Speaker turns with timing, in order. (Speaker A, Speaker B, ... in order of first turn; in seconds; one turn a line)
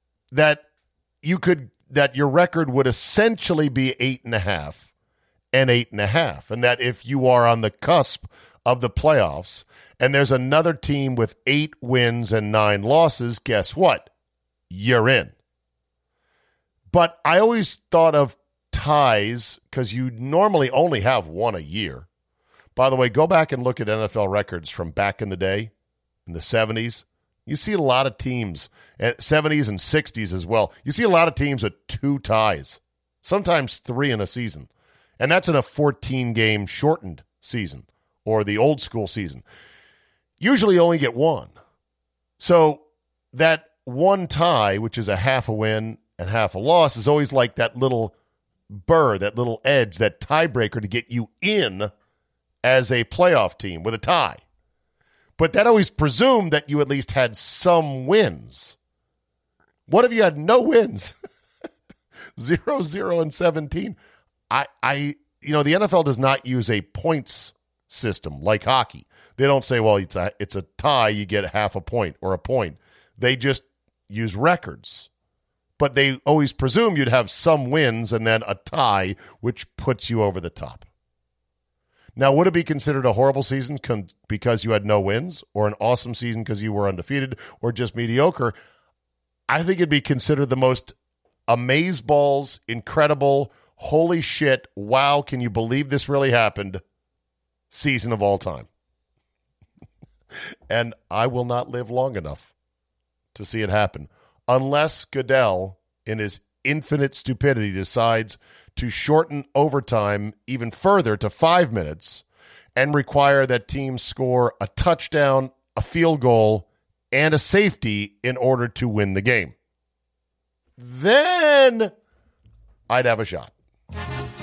Speaker A: 0.3-0.6
Speaker A: 1.2-4.9
Speaker A: 5.5-14.1
Speaker A: 14.7-15.3
Speaker A: 16.9-22.1
Speaker A: 22.8-25.7
Speaker A: 26.3-39.4
Speaker A: 40.4-41.5
Speaker A: 42.4-48.1
Speaker A: 48.7-51.9
Speaker A: 52.6-54.4
Speaker A: 55.4-58.8
Speaker A: 59.9-61.1
Speaker A: 62.4-64.0
Speaker A: 64.5-75.1
Speaker A: 75.8-80.9
Speaker A: 82.2-88.5
Speaker A: 89.5-90.9
Speaker A: 91.5-96.8
Speaker A: 97.7-98.7
Speaker A: 100.7-102.5
Speaker A: 103.3-112.2
Speaker A: 112.8-119.5
Speaker A: 120.8-121.9
Speaker A: 122.9-123.5